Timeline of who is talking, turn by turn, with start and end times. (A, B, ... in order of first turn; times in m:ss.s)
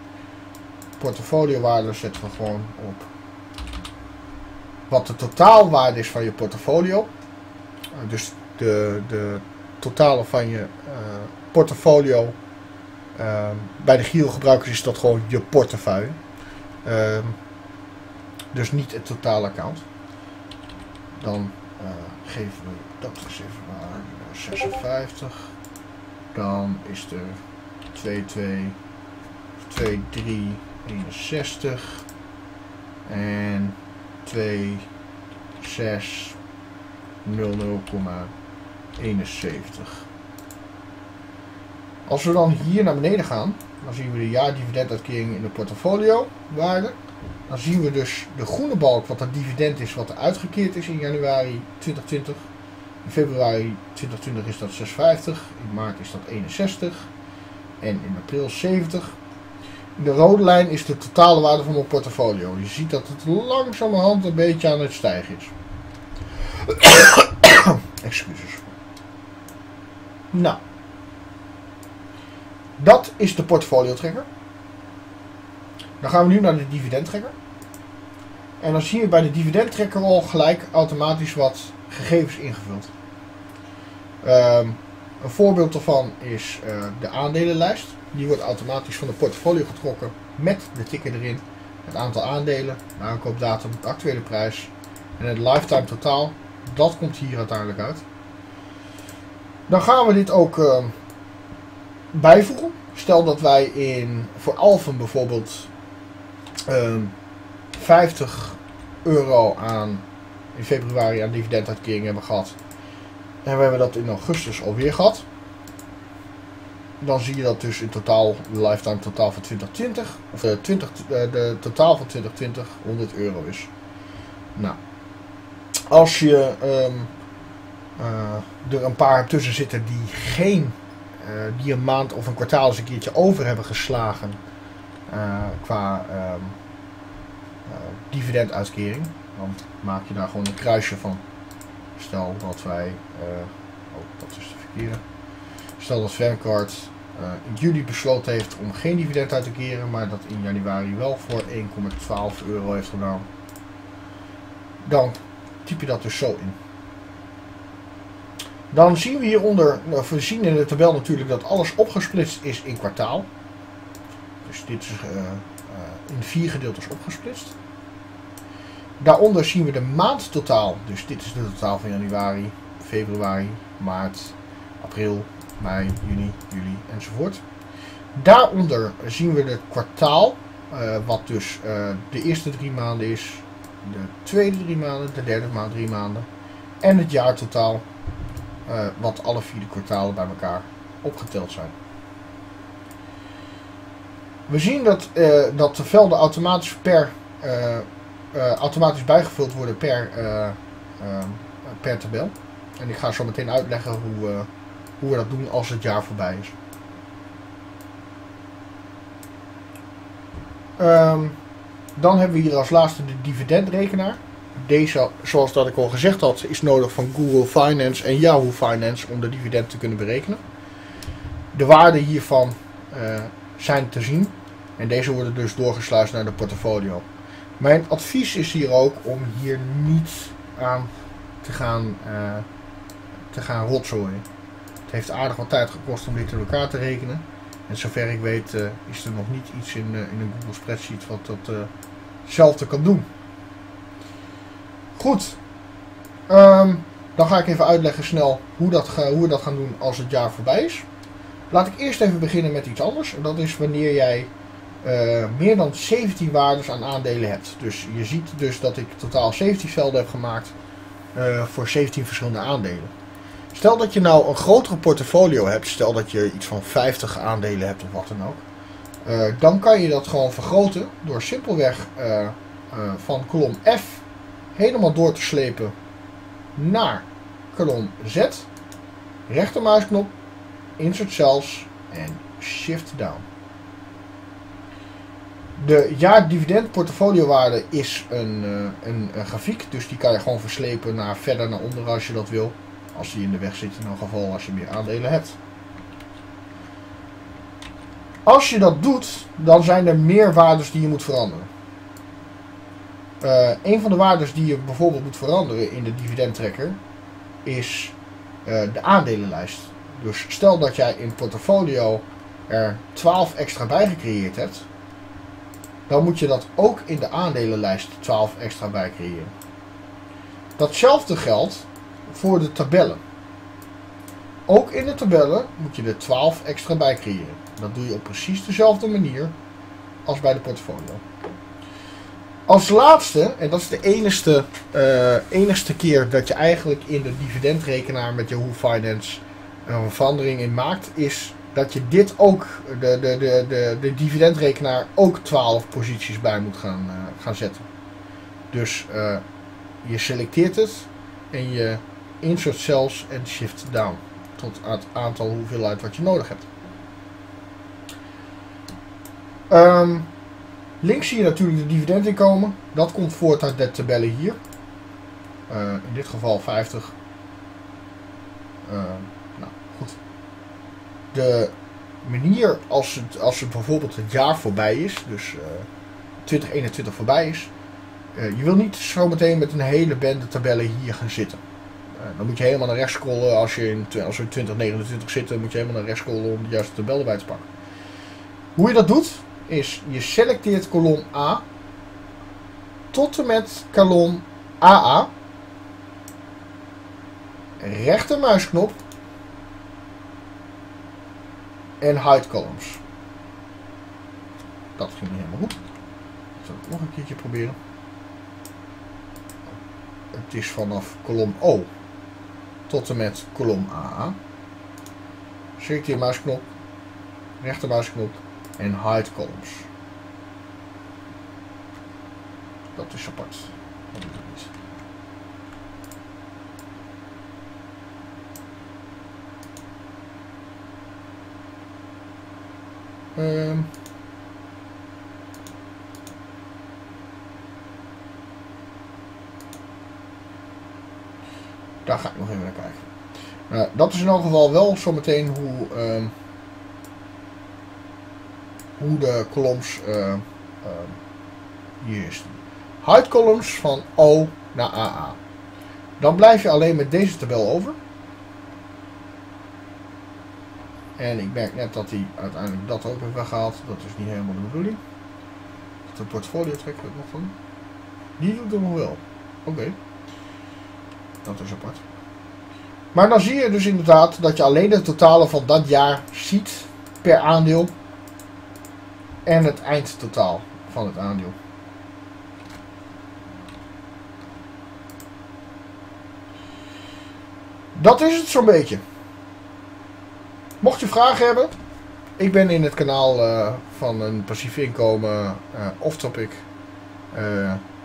0:01.0-0:03.1 A
0:04.9-0:07.1 A
0:07.9-0:12.4 A
0:13.2-0:16.2 A
0:16.8-0:17.4 A
0:18.5-0:19.8 A
0:21.2-0:25.5 A
0:26.3-0:27.4 A
0:27.9-0:28.8 A
0:29.6-0:32.0 A
0:33.0-0:34.9 A
0:35.6-0:36.4 A
0:37.2-0:38.3 A
0:39.0-0:40.1 A
0:42.0-0:47.0 A
0:47.5-0:52.5 A
0:53.0-0:57.1 A
0:57.8-0:59.2 A
1:00.0-1:05.5 A
1:06.6-1:08.8 A
1:10.3-1:10.6 A
1:12.8-1:14.3 A
1:16.0-1:17.3 A
1:18.6-1:22.9 A
1:24.2-1:38.0 A
1:39.7-1:40.9 A
1:42.1-1:45.7 A
1:46.7-1:47.1 A
1:47.7-1:52.6 A
1:53.4-1:55.2 A
1:57.0-2:03.7 A
2:05.9-2:07.1 A
2:08.0-2:14.4 A
2:15.1-2:16.6 A
2:17.6-2:21.2 A
2:22.0-2:25.0 A
2:25.8-2:33.2 A
2:34.8-2:36.6 A
2:38.7-2:43.3 A
2:44.4-2:47.6 A
2:49.0-2:57.4 A
2:58.1-3:06.3 A
3:06.8-3:07.8 A
3:08.7-3:11.7 A
3:14.5-3:26.6 A
3:30.8-3:31.4 A
3:32.0-3:40.4 A
3:41.5-3:47.0 A
3:47.6-3:50.9 A
3:51.4-3:52.4 A
3:53.3-3:54.2 A
3:54.9-4:01.7 A
4:02.2-4:03.1 A
4:05.0-4:05.4 A
4:06.3-4:10.8 A
4:11.5-4:14.3 A
4:14.8-4:20.5 A
4:21.1-4:22.9 A
4:23.5-4:28.4 A
4:29.0-4:34.0 A
4:34.5-4:35.7 A
4:36.6-4:38.5 A
4:39.3-4:40.1 A
4:40.8-4:43.3 A
4:45.6-4:55.4 A
4:58.2-5:01.5 A
5:03.2-5:06.8 A
5:07.4-5:14.7 A
5:15.9-5:19.3 A
5:20.6-5:23.0 A
5:24.5-5:29.4 A
5:30.0-5:31.0 A
5:32.5-5:47.6 A
5:48.5-5:49.2 A
5:49.8-5:56.5 A
5:59.5-6:00.1 A
6:00.8-6:04.4 A
6:05.5-6:07.0 A
6:08.6-6:10.0 A
6:11.1-6:15.7 A
6:16.2-6:17.5 A
6:18.1-6:21.4 A
6:22.0-6:27.5 A
6:28.6-6:31.4 A
6:32.9-6:35.1 A
6:37.6-6:38.8 A
6:41.8-6:42.8 A
6:44.8-6:45.6 A
6:46.4-6:47.6 A
6:50.1-6:51.7 A
6:52.7-6:54.2 A
6:55.6-6:56.4 A
6:57.4-6:59.7 A
7:02.8-7:04.5 A
7:13.2-7:13.7 A
7:21.8-7:22.9 A
7:23.5-7:26.1 A
7:28.8-7:31.0 A
7:31.8-7:35.2 A
7:36.0-7:37.8 A
7:41.0-7:44.8 A
7:45.9-7:47.3 A
7:48.2-7:49.8 A
7:51.2-7:51.8 A
7:52.9-7:57.7 A
7:59.2-8:01.4 A
8:07.7-8:08.8 A
8:10.6-8:11.5 A
8:12.2-8:16.5 A
8:17.1-8:17.6 A